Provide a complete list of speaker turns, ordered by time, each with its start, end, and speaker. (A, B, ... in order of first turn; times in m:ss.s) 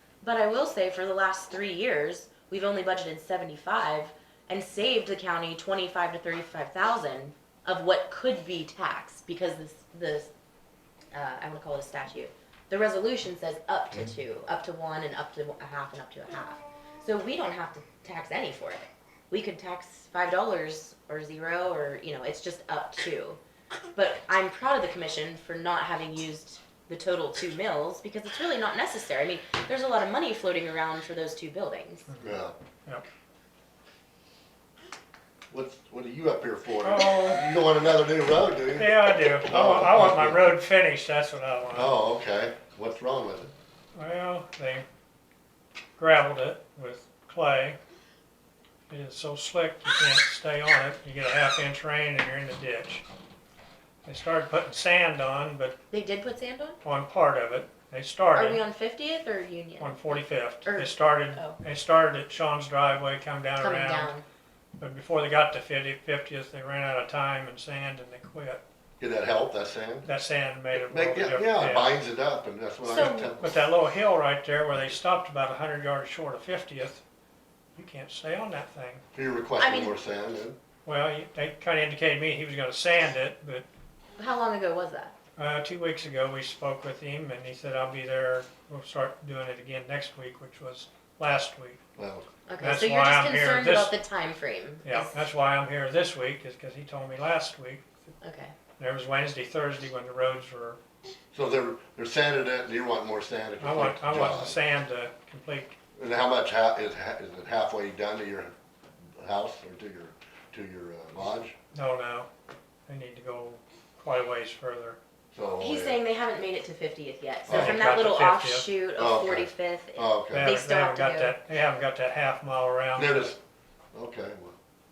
0:00.2-0:10.3 A
0:11.1-0:23.4 A
0:24.0-0:32.1 A
0:32.1-0:32.3 B
0:32.2-0:32.6 C
0:35.5-0:40.5 C
0:36.8-0:37.4 B
0:38.8-0:41.9 B
0:41.7-0:43.5 C
0:44.0-0:44.8 B
0:46.0-0:47.8 B
0:48.9-0:53.0 B
0:54.0-0:55.8 B
0:55.9-0:56.8 A
0:56.8-0:58.6 B
0:58.3-1:01.6 A
0:59.8-1:04.1 B
1:03.6-1:04.2 A
1:04.8-1:08.6 B
1:09.0-1:10.1 C
1:10.0-1:12.0 B
1:10.8-1:13.6 C
1:12.8-1:13.4 A
1:13.4-1:17.0 B
1:17.8-1:19.0 B
1:19.2-1:20.6 C
1:19.6-1:20.0 A
1:20.8-1:23.6 B
1:24.2-1:25.1 A
1:25.4-1:31.8 B
1:32.0-1:32.3 C
1:32.5-1:35.3 A
1:32.6-1:34.0 B
1:34.8-1:37.9 B
1:38.2-1:38.5 A
1:38.8-1:40.8 B
1:41.3-1:44.6 C
1:43.6-1:45.8 B
1:46.0-1:48.5 C
1:49.2-1:51.6 C
1:51.7-1:52.3 B
1:52.9-1:55.0 B
1:55.3-1:56.0 C
1:55.6-2:01.4 A
1:57.5-1:57.8 C
1:57.5-1:58.7 B
1:59.0-2:00.5 C
2:00.3-2:03.3 B
2:03.0-2:03.4 C
2:03.9-2:04.6 C